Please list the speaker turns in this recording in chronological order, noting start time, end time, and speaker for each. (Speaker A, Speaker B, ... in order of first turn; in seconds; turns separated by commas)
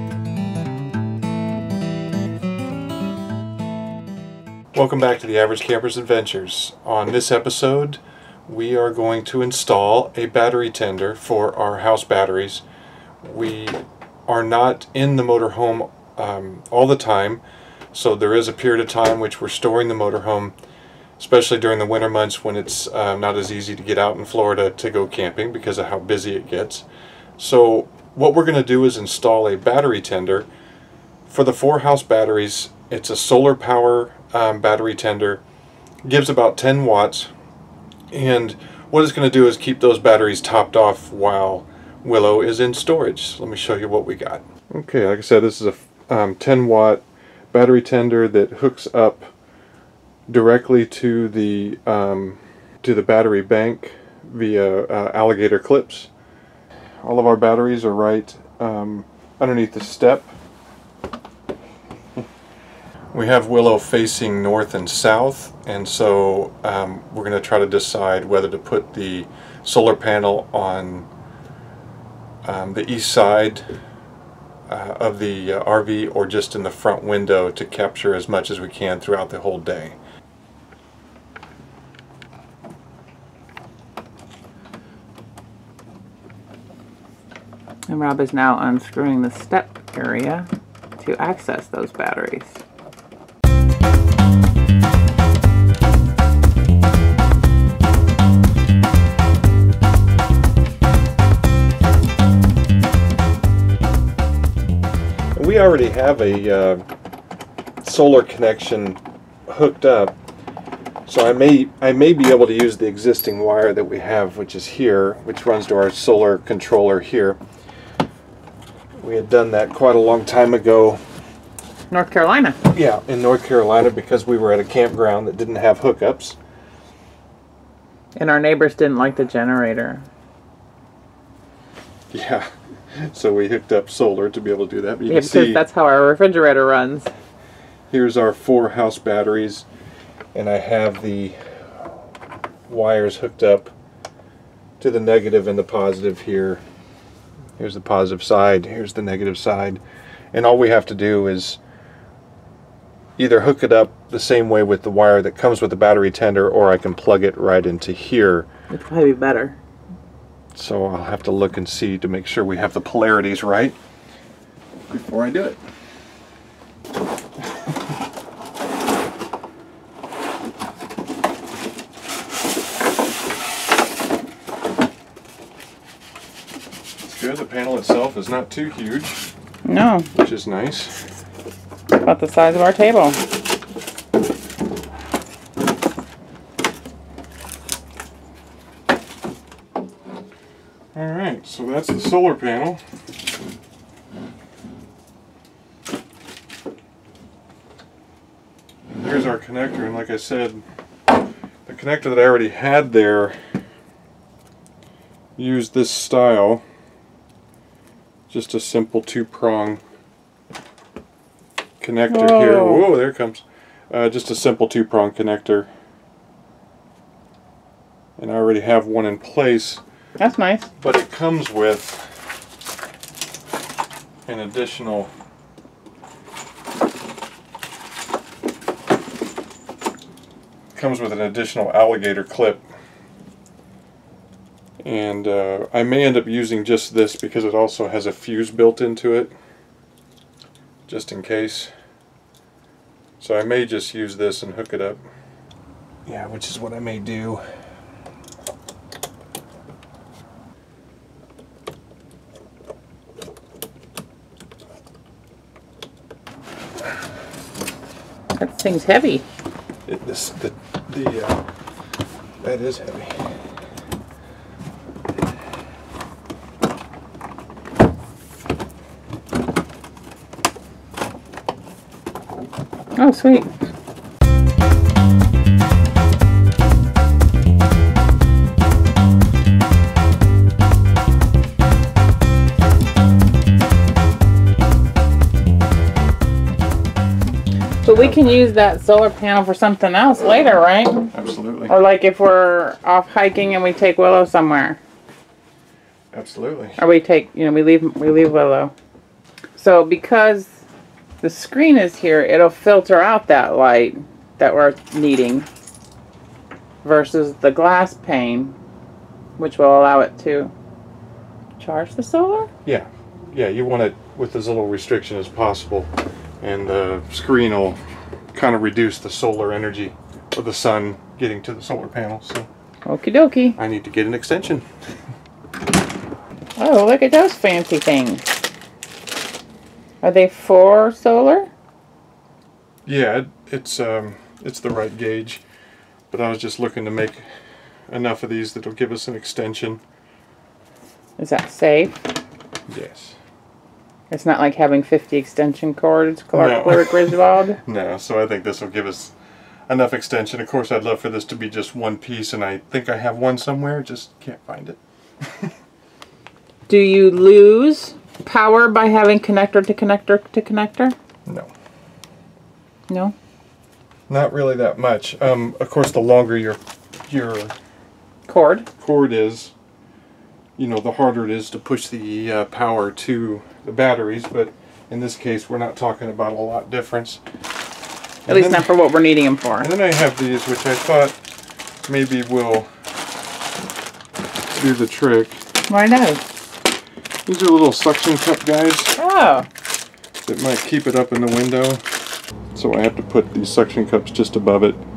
Speaker A: 4.7-12.6, Speaker A: 13.2-20.5, Speaker A: 21.2-26.9, Speaker A: 27.4-30.5, Speaker A: 31.3-35.4, Speaker A: 36.0-37.3, Speaker A: 38.1-49.3, Speaker A: 50.3-56.1, Speaker A: 57.0-60.3, Speaker A: 63.1-71.1, Speaker A: 72.4-73.7, Speaker A: 74.7-80.0, Speaker B: 87.9-90.5, Speaker B: 91.0-92.6, Speaker A: 105.3-106.8, Speaker A: 107.8-110.1, Speaker A: 111.1-117.4, Speaker A: 119.0-121.0, Speaker B: 121.9-122.6, Speaker A: 122.7-126.4, Speaker B: 128.2-130.1, Speaker A: 132.1-135.6, Speaker B: 135.1-137.1, Speaker A: 137.9-139.7, Speaker A: 140.3-141.4, Speaker A: 142.7-143.7, Speaker A: 144.8-146.6, Speaker A: 147.6-149.8, Speaker A: 150.3-151.6, Speaker A: 153.2-158.5, Speaker B: 158.7-159.6, Speaker A: 160.5-163.8, Speaker A: 164.9-165.6, Speaker A: 177.0-179.2, Speaker B: 179.6-180.1, Speaker A: 180.1-181.0, Speaker B: 181.9-183.2, Speaker A: 190.9-192.8, Speaker A: 198.9-200.6, Speaker A: 201.7-203.4, Speaker A: 205.3-206.6, Speaker A: 208.3-209.8, Speaker A: 211.8-215.7, Speaker B: 212.1-212.9, Speaker A: 218.2-219.8, Speaker B: 220.2-220.7, Speaker A: 220.8-222.1, Speaker A: 224.2-225.1, Speaker A: 230.7-232.6, Speaker A: 234.8-239.3, Speaker A: 240.9-241.7, Speaker A: 243.2-245.0, Speaker A: 246.1-247.4, Speaker B: 258.4-259.2, Speaker A: 259.9-261.4, Speaker A: 262.4-263.2, Speaker B: 272.9-273.5, Speaker B: 287.8-291.1, Speaker A: 287.9-288.3, Speaker A: 291.1-291.7, Speaker B: 291.7-294.8, Speaker A: 296.1-296.8, Speaker B: 296.8-298.7, Speaker B: 299.6-300.6, Speaker B: 301.2-305.5, Speaker B: 306.8-308.6, Speaker B: 309.4-310.5, Speaker B: 311.6-312.5, Speaker A: 312.6-315.9, Speaker A: 316.4-317.8, Speaker A: 318.3-322.5, Speaker B: 322.9-323.6, Speaker A: 323.6-324.6, Speaker B: 326.6-328.2, Speaker B: 330.0-331.5, Speaker A: 332.9-335.4, Speaker A: 336.1-337.2, Speaker A: 337.9-339.8, Speaker B: 341.2-342.1, Speaker A: 342.7-343.2, Speaker B: 344.1-347.6, Speaker A: 346.3-349.1, Speaker A: 349.7-354.8, Speaker B: 356.7-360.9, Speaker A: 361.2-361.5, Speaker B: 362.9-363.1, Speaker A: 364.1-367.5, Speaker B: 368.3-368.7, Speaker A: 368.8-369.5, Speaker A: 370.6-377.2, Speaker A: 378.2-378.7, Speaker B: 378.3-379.7, Speaker A: 379.6-381.1, Speaker A: 381.8-382.7, Speaker A: 384.5-385.4, Speaker B: 385.7-386.3, Speaker A: 387.2-389.0, Speaker B: 389.0-389.5, Speaker A: 390.2-391.8, Speaker A: 392.5-394.8